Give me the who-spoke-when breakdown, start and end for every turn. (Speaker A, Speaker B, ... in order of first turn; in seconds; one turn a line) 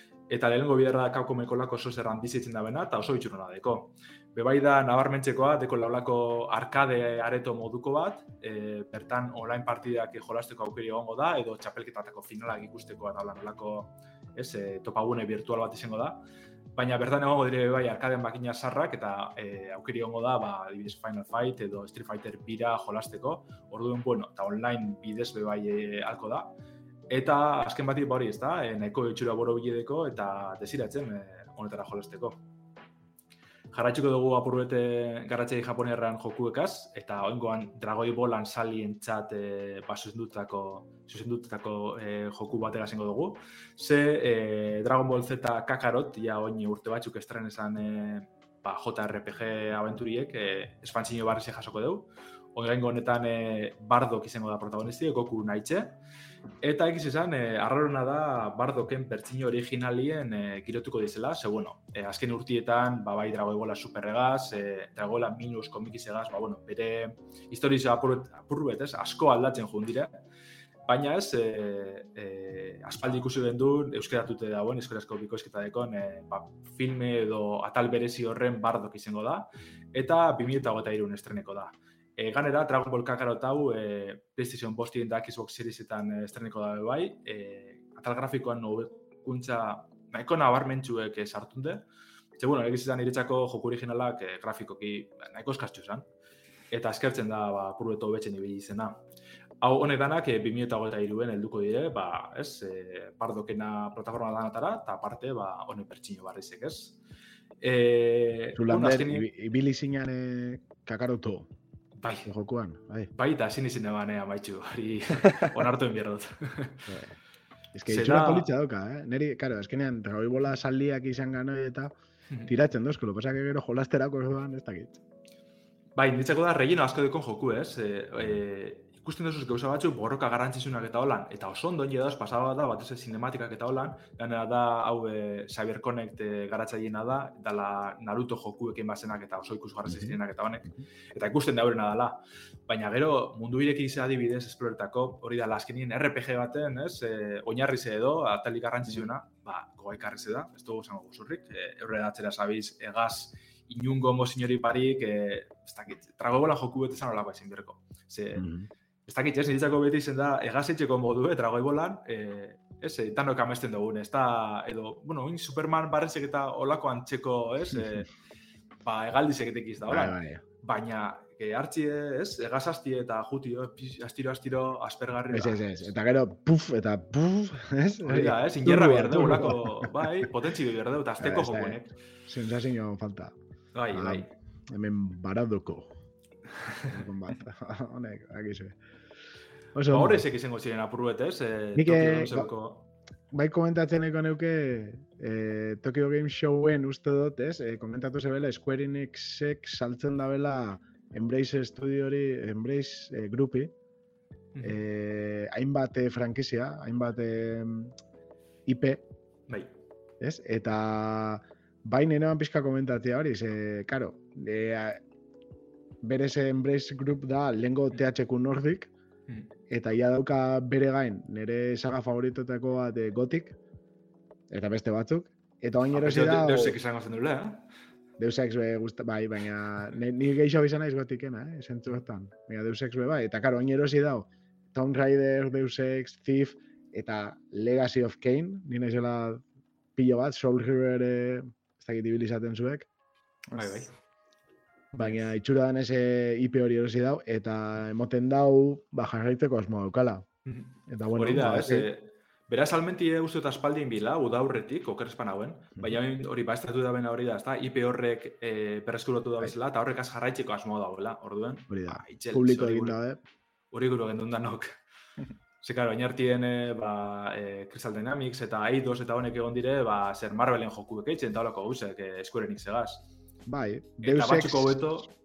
Speaker A: 0.3-16.2
Speaker A: 16.8-26.5
Speaker A: 27.1-32.4
Speaker A: 33.7-56.0
Speaker A: 56.6-70.2
Speaker A: 70.8-96.1
Speaker A: 96.7-99.0
Speaker A: 99.6-107.0
Speaker A: 107.6-109.3
Speaker B: 108.5-111.5
Speaker A: 112.0-112.3
Speaker B: 112.2-113.1
Speaker A: 113.1-116.9
Speaker B: 116.9-117.2
Speaker B: 117.7-121.9
Speaker A: 117.8-118.5
Speaker B: 122.5-125.0
Speaker A: 126.0-158.4
Speaker B: 139.9-140.2
Speaker B: 158.3-158.7
Speaker A: 159.1-168.1
Speaker A: 168.8-175.9
Speaker B: 169.9-170.4
Speaker B: 175.3-180.1
Speaker A: 178.0-181.9
Speaker B: 181.2-183.3
Speaker A: 183.7-184.3
Speaker B: 183.9-185.9
Speaker B: 186.9-188.8
Speaker B: 189.7-190.2
Speaker A: 189.9-192.9
Speaker B: 191.8-192.5
Speaker B: 193.3-203.7
Speaker A: 204.5-204.8
Speaker B: 204.6-207.9
Speaker B: 208.7-209.0
Speaker A: 209.5-209.7
Speaker B: 210.2-215.0
Speaker B: 216.0-218.9
Speaker B: 219.7-223.6
Speaker B: 224.5-226.8
Speaker A: 225.9-227.7
Speaker B: 228.2-239.4
Speaker B: 239.9-242.9
Speaker A: 243.5-243.9
Speaker B: 244.9-250.2
Speaker A: 250.4-263.0
Speaker B: 250.9-251.9
Speaker B: 261.7-263.2
Speaker A: 263.7-264.8
Speaker A: 265.6-273.1
Speaker B: 273.4-274.9
Speaker A: 274.0-275.1